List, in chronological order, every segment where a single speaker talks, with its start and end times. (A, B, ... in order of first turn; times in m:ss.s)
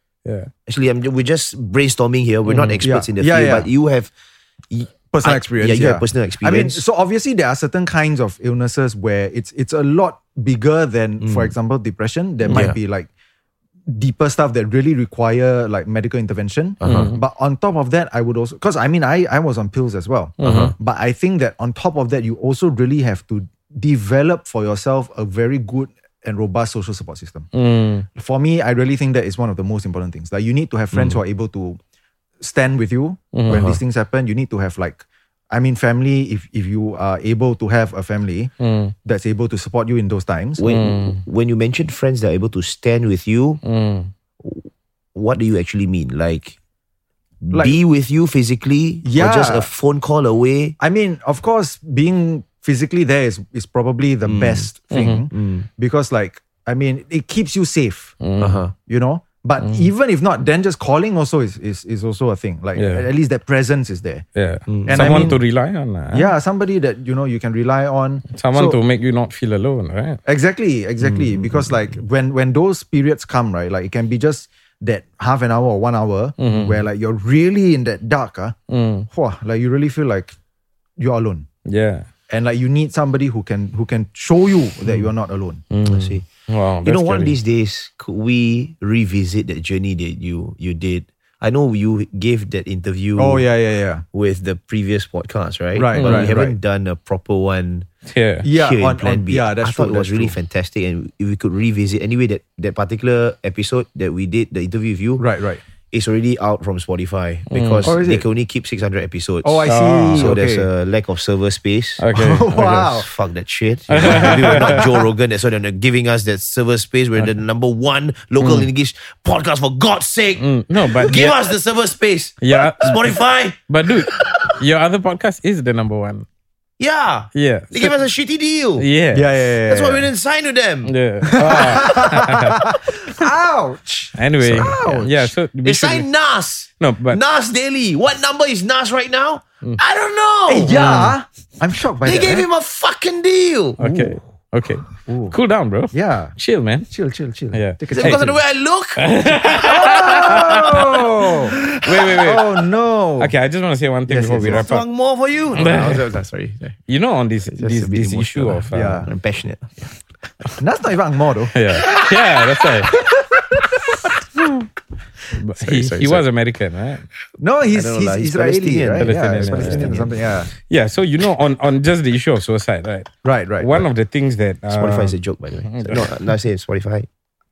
0:00.2-0:00.5 A
0:00.7-0:04.1 B
0:02.4-0:02.8 A
0:02.8-0:03.7 C
0:04.7-0:06.8 B
0:05.1-0:13.1 C
0:11.2-0:11.5 B
0:12.5-0:12.8 B
0:13.9-0:27.5 C
0:16.8-0:17.2 B
0:16.8-0:17.2 A
0:20.4-0:20.7 A
0:20.4-0:20.7 B
0:27.5-0:28.0 A
0:28.2-0:31.8 C
0:30.9-0:31.2 B
0:32.4-0:38.5 C
0:33.3-0:33.6 A
0:33.5-0:33.8 B
0:38.6-0:38.9 A
0:39.0-0:40.6 C
0:40.6-0:43.6 B
0:40.6-0:41.2 A
0:43.6-0:44.1 A
0:44.4-0:46.6 B
0:47.4-0:50.8 B
0:49.0-0:49.7 C
0:50.8-0:58.2 C
0:54.2-0:54.7 B
0:54.9-0:55.2 A
0:55.3-0:55.7 B
0:58.2-0:58.6 A
0:58.4-0:58.7 B
0:58.8-1:04.2 C
0:59.6-0:59.9 A
1:02.8-1:03.0 A
1:04.4-1:06.3 A
1:04.7-1:05.4 B
1:04.8-1:05.4 C
1:06.1-1:08.8 C
1:08.3-1:10.2 A
1:10.2-1:18.6 C
1:11.0-1:12.0 B
1:16.4-1:16.8 A
1:18.7-1:19.1 A
1:19.1-1:20.3 C
1:21.0-1:21.5 C
1:21.6-1:22.0 A
1:22.3-1:25.6 C
1:25.7-1:27.4 A
1:25.8-1:26.2 B
1:26.8-1:33.5 B
1:33.2-1:34.0 C
1:34.1-1:37.9 B
1:35.7-1:36.6 C
1:36.0-1:36.3 A
1:38.0-1:38.4 A
1:38.4-1:40.3 C
1:38.5-1:45.3 B
1:45.2-1:45.6 C
1:45.9-1:52.0 B
1:47.5-1:47.9 A
1:47.8-1:48.2 C
1:49.4-1:50.7 C
1:49.6-1:50.4 A
1:52.0-1:52.8 A
1:52.1-1:53.1 C
1:52.6-2:04.6 B
1:53.9-1:54.8 A
1:54.0-1:54.9 C
1:58.4-1:58.7 A
2:00.4-2:01.5 A
2:02.4-2:06.2 A
2:06.8-2:08.8 B
2:07.3-2:07.9 A
2:08.8-2:09.4 A
2:09.1-2:10.1 C
2:09.7-2:10.9 B
2:10.8-2:12.6 A
2:11.3-2:15.3 C
2:11.4-2:12.7 B
2:14.2-2:16.1 A
2:14.5-2:15.0 B
2:15.6-2:21.1 B
2:16.8-2:17.2 A
2:20.5-2:22.5 C
2:20.7-2:21.1 A
2:22.0-2:23.8 B
2:23.8-2:26.9 A
2:23.8-2:24.2 C
2:25.0-2:25.3 C
2:25.9-2:26.3 C
2:26.9-2:28.4 C
2:27.5-2:28.3 A
2:27.9-2:30.7 B
2:29.0-2:31.0 A
2:29.6-2:31.6 C
2:31.8-2:32.6 A
2:32.2-2:33.3 C
2:33.2-2:34.8 A
2:34.1-2:36.8 B
2:34.4-2:34.6 C
2:35.5-2:36.0 A
2:36.9-2:39.1 A
2:37.4-2:40.6 B
2:38.7-2:39.1 C
2:40.6-2:41.5 C
2:41.5-2:42.9 A
2:41.8-2:44.1 B
2:45.3-2:46.2 B
2:45.4-2:47.0 A
2:47.4-2:50.5 C
2:47.7-2:50.1 B
2:49.0-2:50.0 A
2:50.6-2:56.1 A
2:53.2-2:53.8 C
2:54.7-2:57.1 B